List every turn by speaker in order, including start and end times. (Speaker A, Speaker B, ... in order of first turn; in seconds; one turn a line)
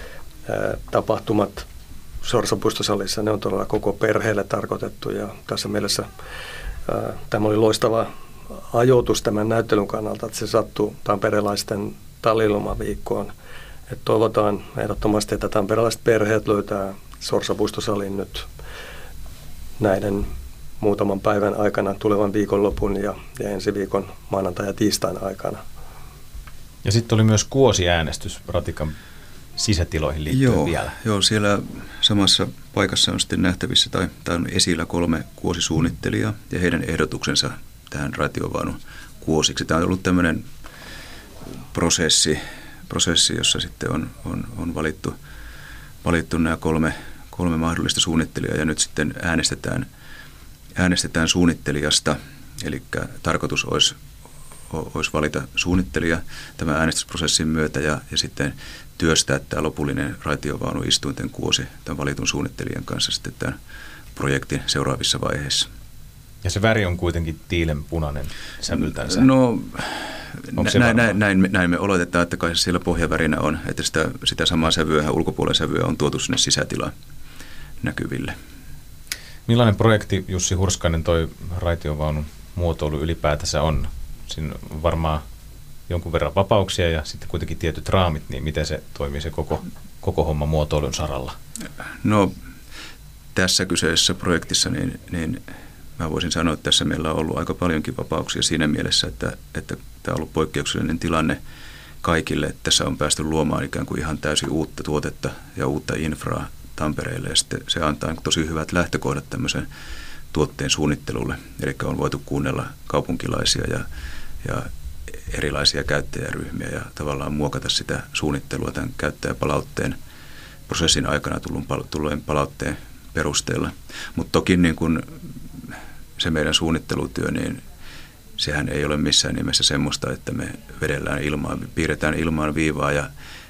Speaker A: 0.5-1.7
Speaker A: 2.2-6.1
Speaker A: 6.9-13.3
Speaker A: 13.9-18.5
Speaker A: 19.8-25.6
Speaker B: 26.8-28.9
Speaker B: 29.6-30.9
Speaker C: 30.3-40.5
Speaker C: 41.7-45.2
Speaker C: 46.0-49.9
Speaker C: 50.8-54.0
Speaker C: 54.7-63.6
Speaker C: 64.2-65.7
Speaker B: 66.4-69.3
Speaker C: 68.8-76.9
Speaker B: 70.6-71.1
Speaker C: 77.8-78.4
Speaker B: 79.5-85.2
Speaker B: 85.9-91.4
Speaker C: 92.0-92.3
Speaker C: 93.3-95.4
Speaker C: 96.0-101.4
Speaker C: 102.0-109.7
Speaker C: 110.3-113.8
Speaker C: 114.4-114.7
Speaker C: 115.3-120.0
Speaker C: 120.7-127.6
Speaker C: 128.4-133.1